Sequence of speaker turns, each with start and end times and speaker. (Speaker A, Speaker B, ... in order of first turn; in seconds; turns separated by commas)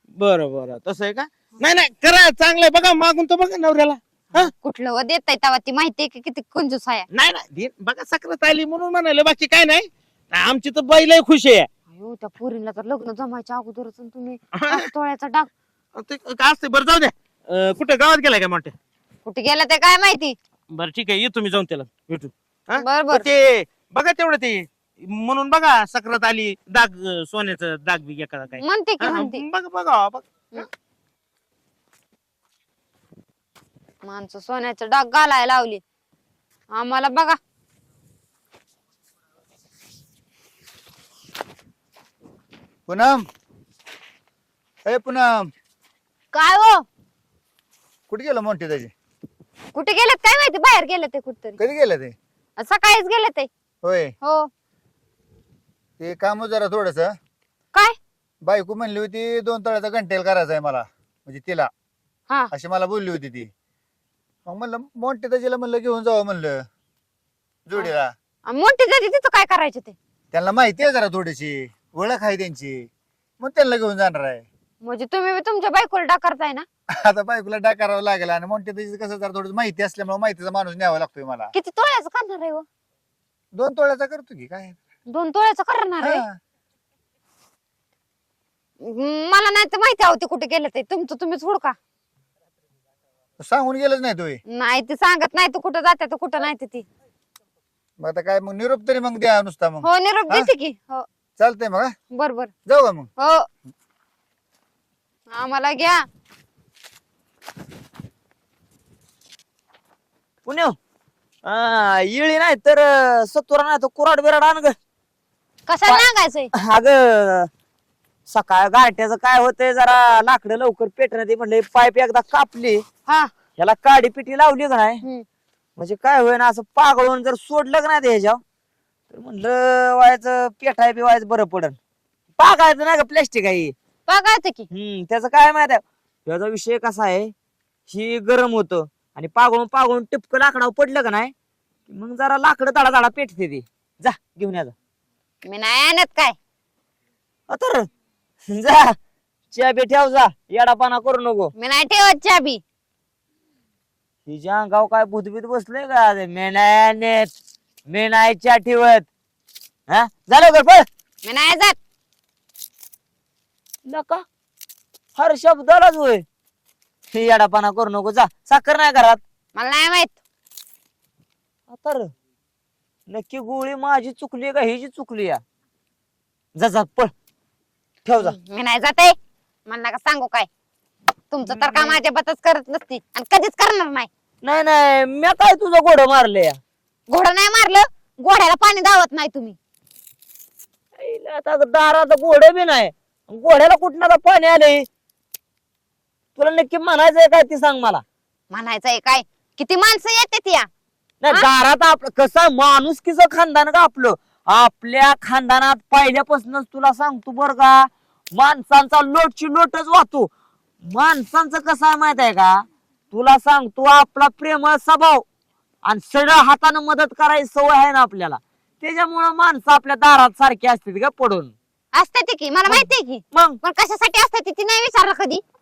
Speaker A: 0.2-4.5, Speaker B: 4.3-7.1, Speaker A: 7.1-11.7, Speaker B: 11.9-15.5, Speaker A: 14.6-14.9, Speaker A: 15.9-18.7, Speaker B: 19.2-20.4, Speaker A: 20.7-30.6, Speaker B: 22.8-23.2, Speaker B: 28.6-29.4, Speaker B: 34.0-35.8, Speaker B: 36.7-37.4, Speaker C: 42.9-43.3, Speaker C: 44.8-45.5, Speaker B: 46.3-46.8, Speaker C: 48.1-48.9, Speaker B: 49.7-51.6, Speaker C: 51.6-52.1, Speaker B: 52.6-53.5, Speaker C: 53.8-54.1, Speaker B: 54.2-54.5, Speaker C: 56.0-57.1, Speaker C: 58.4-61.7, Speaker C: 62.5-63.5, Speaker C: 64.5-66.7, Speaker C: 67.7-68.1, Speaker B: 68.5-69.9, Speaker C: 70.3-72.9, Speaker C: 73.4-74.4, Speaker B: 74.8-76.7, Speaker C: 76.9-81.5, Speaker B: 81.5-82.7, Speaker C: 83.5-84.8, Speaker B: 85.1-86.2, Speaker C: 86.0-86.4, Speaker B: 88.8-91.8, Speaker C: 93.4-94.4, Speaker B: 94.5-96.8, Speaker C: 98.0-100.5, Speaker B: 99.8-101.0, Speaker C: 101.4-101.9, Speaker B: 102.1-102.5, Speaker C: 102.7-103.1, Speaker B: 103.2-103.5, Speaker B: 105.3-106.0, Speaker D: 110.5-110.8, Speaker D: 111.4-114.7, Speaker B: 115.7-116.5, Speaker D: 115.9-117.5, Speaker D: 118.3-122.8, Speaker D: 123.6-125.0, Speaker D: 125.8-128.4, Speaker D: 129.1-131.8, Speaker D: 132.4-133.7, Speaker B: 134.1-134.7, Speaker D: 134.7-137.3, Speaker D: 137.9-141.3, Speaker D: 141.9-144.7, Speaker B: 145.4-146.4, Speaker D: 147.5-147.9, Speaker D: 148.5-149.0, Speaker D: 149.5-151.5, Speaker B: 151.6-152.6, Speaker D: 154.2-157.3, Speaker D: 157.9-159.1, Speaker D: 159.9-160.8, Speaker B: 161.2-161.8, Speaker D: 163.8-164.2, Speaker D: 165.2-166.2, Speaker D: 167.1-169.2, Speaker B: 169.5-170.2, Speaker D: 171.7-172.1, Speaker D: 173.1-175.4, Speaker D: 176.6-177.1, Speaker D: 178.1-178.3, Speaker B: 178.2-179.2, Speaker B: 179.7-180.5, Speaker B: 181.3-184.1, Speaker D: 181.4-182.0, Speaker D: 184.4-186.6, Speaker B: 187.1-189.6, Speaker D: 191.0-194.8, Speaker D: 196.3-198.0, Speaker B: 198.5-200.7, Speaker D: 201.2-210.3, Speaker D: 210.8-215.2, Speaker D: 215.8-221.5, Speaker B: 221.9-225.4, Speaker D: 222.7-223.6